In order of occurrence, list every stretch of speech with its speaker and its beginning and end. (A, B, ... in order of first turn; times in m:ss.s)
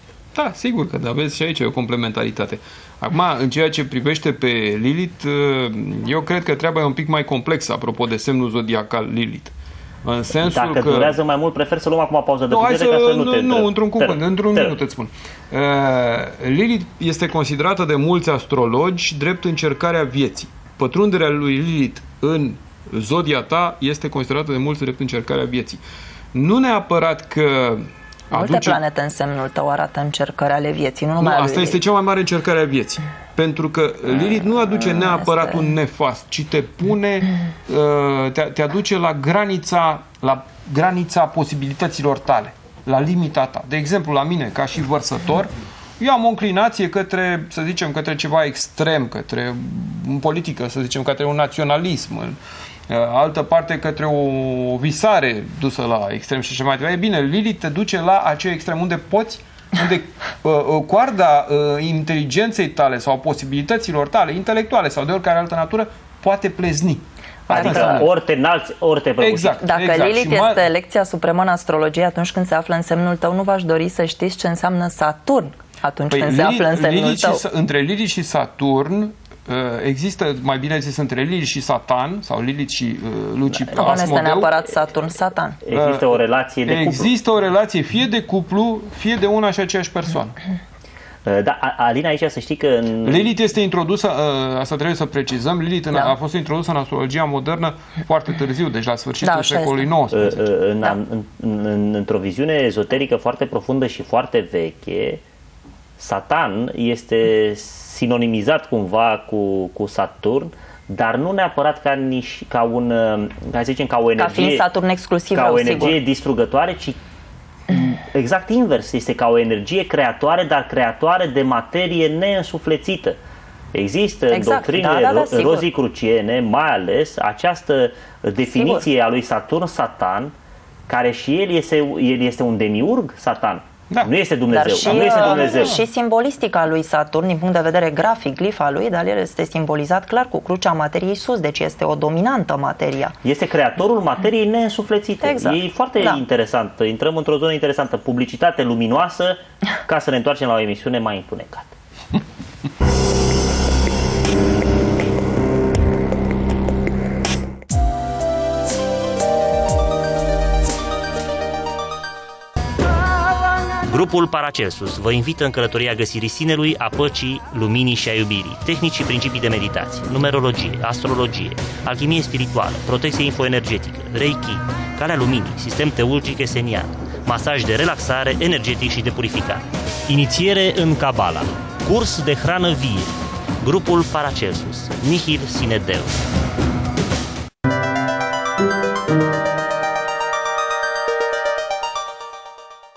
0:00.4-0:11.2 A
0:10.4-0:14.8 B
0:12.5-0:25.8 A
0:26.3-0:28.8 A
0:28.3-0:31.8 C
0:31.2-0:52.4 A
0:34.8-0:35.7 C
0:52.9-1:08.1 A
1:07.5-1:09.6 B
1:07.5-1:08.0 C
1:09.2-1:10.7 A
1:09.6-1:17.4 C
1:16.1-1:24.6 A
1:23.7-1:25.6 C
1:25.6-1:27.1 B
1:25.7-1:30.4 A
1:31.2-1:33.3 B
1:33.0-1:40.4 A
1:39.2-1:39.9 C
1:40.1-1:45.2 B
1:46.0-1:54.6 B
1:54.2-1:56.0 C
1:55.3-1:57.0 B
1:57.7-2:03.2 B
2:03.7-2:10.3 B
2:04.3-2:05.7 C
2:08.5-2:08.8 C
2:10.9-2:15.8 B
2:14.5-2:23.2 C
2:14.8-2:15.8 A
2:23.2-2:31.7 B
2:25.2-2:26.2 C
2:43.9-3:06.2 B